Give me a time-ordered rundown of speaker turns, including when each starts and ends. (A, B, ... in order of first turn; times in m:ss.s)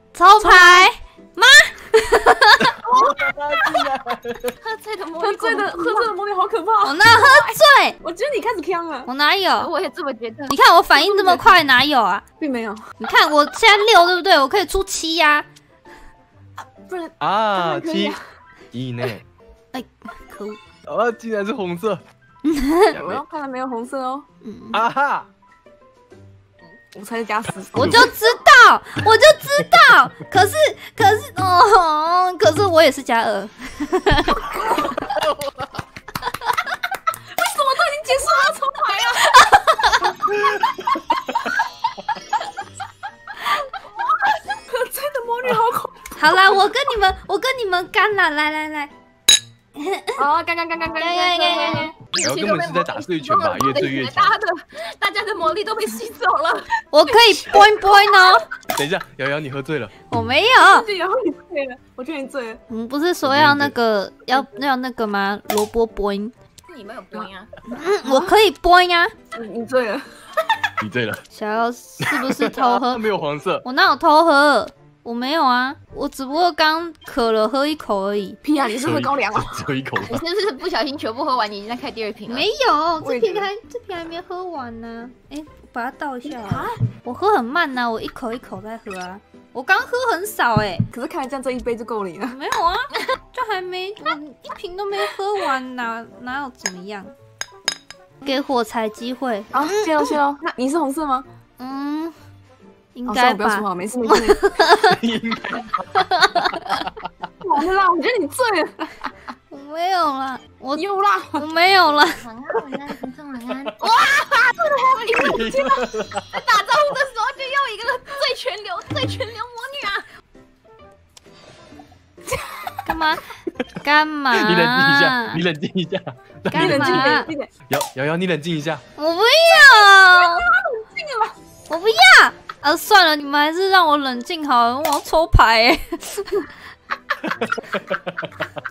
0:00.1-0:02.8 A
0:00.4-0:00.9 B
0:02.9-0:03.1 B
0:02.9-0:04.6 C
0:04.6-0:06.2 D
0:05.2-0:09.1 B
0:06.8-0:08.0 A
0:09.1-0:09.7 A
0:09.6-0:10.6 D
0:10.5-0:12.2 A
0:10.9-0:11.5 B
0:12.4-0:12.8 B
0:13.0-0:15.5 A
0:16.8-0:18.2 B
0:17.2-0:18.2 C
0:18.7-0:19.2 C
0:19.7-0:20.6 A
0:20.9-0:22.0 C
0:22.4-0:22.9 A
0:22.9-0:23.2 C
0:23.0-0:24.3 B
0:24.4-0:24.8 A
0:24.7-0:25.3 C
0:26.9-0:28.0 B
0:27.7-0:28.1 C
0:27.8-0:35.0 A
0:34.5-0:35.0 B
0:37.2-0:39.4 B
0:39.3-0:40.2 A
0:40.4-0:40.6 C
0:44.7-0:46.1 B
0:46.1-0:48.9 A
0:49.8-0:50.2 A
0:50.2-0:51.9 B
0:51.0-0:51.9 A
0:51.4-0:56.7 D
0:52.2-0:54.4 C
0:56.9-0:58.5 A
0:57.6-0:57.9 B
0:58.7-0:59.9 C
1:00.1-1:00.9 A
1:00.6-1:02.6 B
1:02.7-1:06.3 A
1:03.2-1:03.8 C
1:06.7-1:07.5 D
1:07.7-1:09.1 A
1:08.0-1:08.3 B
1:09.3-1:10.7 B
1:10.8-1:11.2 C
1:11.3-1:13.0 A
1:12.0-1:13.7 C
1:13.6-1:18.4 A
1:18.4-1:19.6 B
1:18.7-1:20.2 C
1:20.1-1:22.5 D
1:22.3-1:30.8 A
1:23.0-1:23.5 B
1:26.2-1:26.8 B
1:30.9-1:32.4 B
1:32.3-1:37.1 A
1:38.2-1:40.2 A
1:39.5-1:41.3 B
1:41.6-1:42.2 A
1:43.0-1:45.0 A
1:43.1-1:44.6 B
1:44.8-1:47.1 C
1:46.0-1:46.8 A
1:47.4-1:49.1 B
1:49.5-1:52.2 A
1:50.8-1:51.4 B
1:52.1-1:55.2 D
1:54.0-1:55.8 B
1:55.1-1:56.4 C
1:56.3-2:00.1 D
2:02.3-2:02.8 B
2:02.8-2:03.3 A
2:03.8-2:05.4 A
2:04.3-2:08.8 C
2:06.5-2:07.3 A
2:06.5-2:07.5 B
2:09.0-2:10.5 A
2:09.6-2:11.4 B
2:11.7-2:16.5 A
2:17.2-2:18.3 C